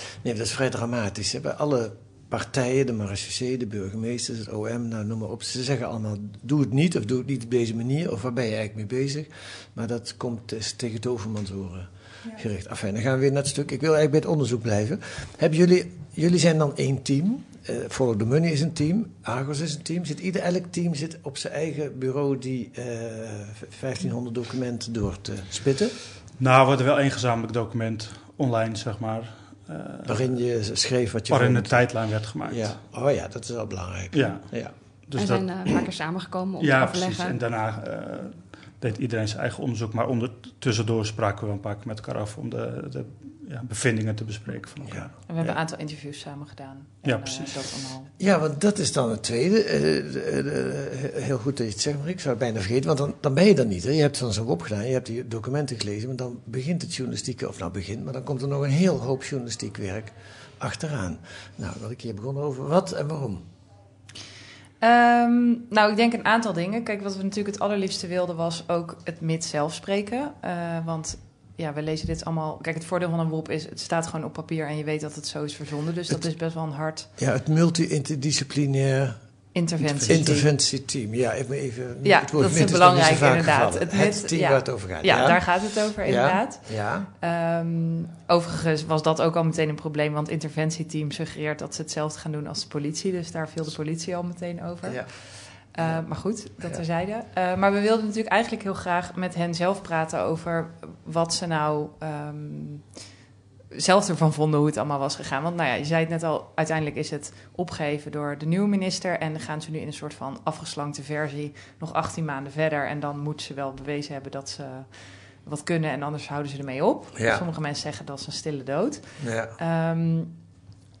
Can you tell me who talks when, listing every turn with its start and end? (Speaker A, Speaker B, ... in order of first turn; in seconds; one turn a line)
Speaker A: 0.2-26.0
Speaker B: 26.4-30.4
Speaker A: 30.1-34.7
Speaker B: 31.3-32.8
Speaker B: 34.1-35.8
Speaker C: 35.1-37.4
Speaker B: 36.6-45.5
Speaker A: 44.8-45.1
Speaker D: 45.3-48.1
Speaker B: 47.0-47.6
Speaker A: 48.2-63.4
Speaker D: 64.8-77.1
Speaker A: 77.2-79.2
Speaker D: 79.5-80.5
Speaker B: 79.8-80.2
Speaker A: 80.0-87.1
Speaker D: 82.0-102.9
Speaker A: 94.8-96.0
Speaker D: 103.7-120.4
Speaker A: 117.1-117.4
Speaker A: 119.2-119.5